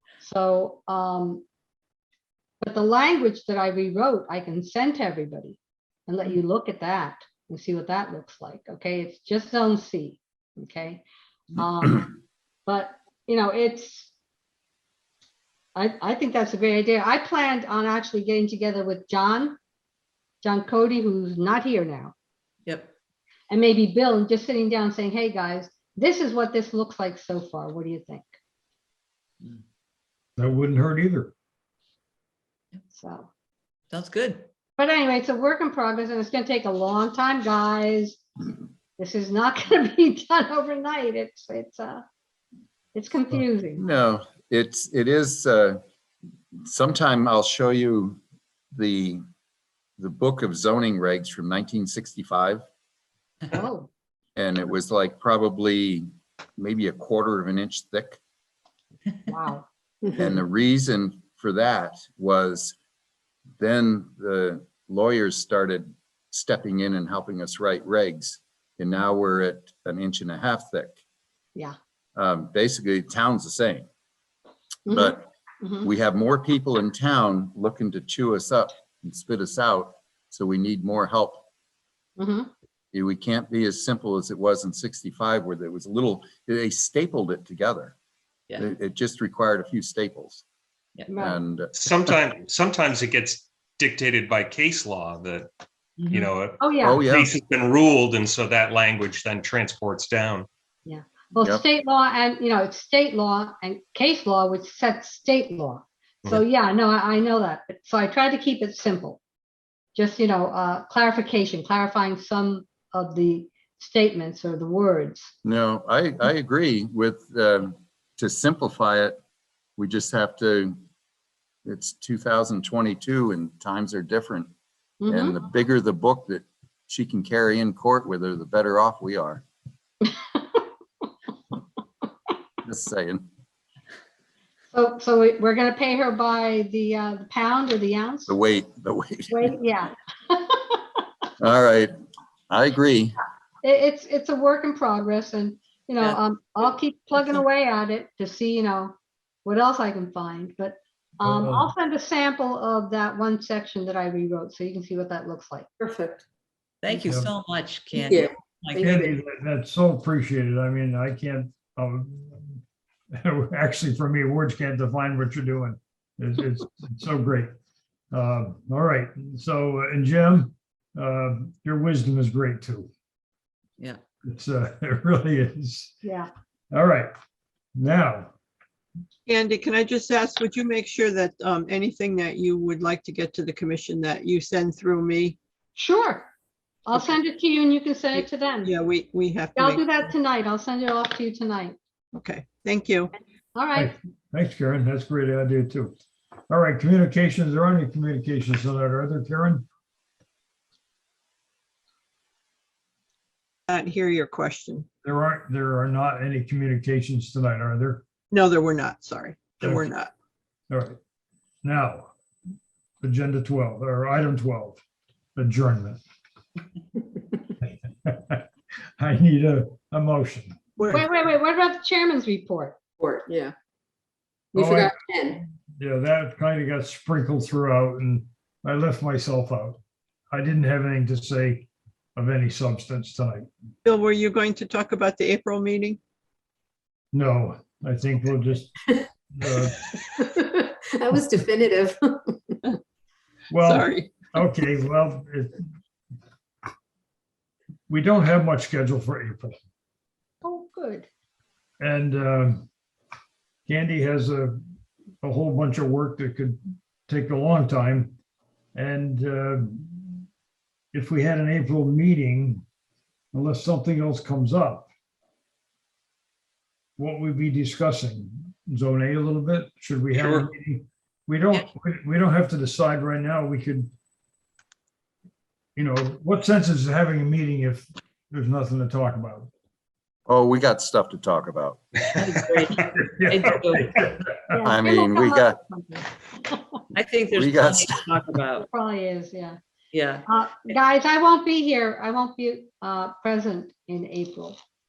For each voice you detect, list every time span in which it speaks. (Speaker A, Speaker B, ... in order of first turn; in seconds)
Speaker A: 0.2-1.4, 2.6-11.0, 11.6-14.1, 15.8-19.6, 20.4-22.1, 23.5-28.3, 32.9-33.3, 34.8-38.2, 39.0-42.0, 43.0-43.8, 53.5-53.9, 59.3-59.7, 74.9-75.9, 82.2-82.5, 91.1-91.4, 96.6-97.0, 100.9-109.2, 110.0-115.3, 125.0-125.4, 130.1-130.6, 134.7-138.4, 139.3-140.8, 143.6-155.7, 176.0-176.3, 185.8-186.3, 186.9-188.7, 189.6-191.8, 193.6-193.9, 220.9-222.8, 250.4-251.1, 284.5-286.6, 288.6-289.6, 290.3-294.6
Speaker B: 22.7-22.9, 33.9-34.5, 96.0-96.3, 156.8-159.0, 282.2-283.9, 286.9-288.7, 289.9-290.2
Speaker C: 30.4-31.3, 151.2-151.7, 156.9-157.3, 158.8-162.6, 163.2-167.5, 168.1-172.9, 174.2-176.0, 176.7-177.1, 177.8-178.3, 193.8-195.9, 196.5-199.7, 205.0-208.0, 210.7-211.0, 211.6-212.1, 213.0-214.8, 215.4-216.0, 217.6-218.5, 219.0-221.1, 224.6-229.8, 230.3-233.5, 237.1-238.8, 239.3-239.9, 243.5-245.6, 247.9-249.6, 251.8-252.7, 253.7-254.6, 255.2-258.1, 258.8-260.2, 260.9-262.6, 263.3-264.9, 267.0-273.9, 275.8-279.5, 282.8-284.4
Speaker D: 43.8-45.8, 46.6-48.2, 48.7-49.2, 50.0-52.6, 54.4-56.1, 56.6-58.2, 60.2-62.8, 63.6-71.0, 72.2-73.9, 74.9-75.2, 75.8-81.5, 82.9-88.0, 88.6-90.5, 91.2-92.1, 96.8-97.4, 115.4-119.2, 119.8-120.8, 121.7-124.5, 125.1-129.4, 132.7-133.3, 138.3-139.5, 141.4-141.9, 142.5-143.2, 280.3-282.1, 284.6-285.6, 287.4-288.0
Speaker E: 91.7-95.5, 96.1-100.5
Speaker F: 155.8-156.2, 223.0-223.6, 224.5-225.4, 241.0-242.5
Speaker G: 179.3-185.4, 188.2-190.1, 192.1-193.1, 203.7-204.9, 208.3-210.1, 220.8-221.0, 233.8-236.0, 243.6-244.4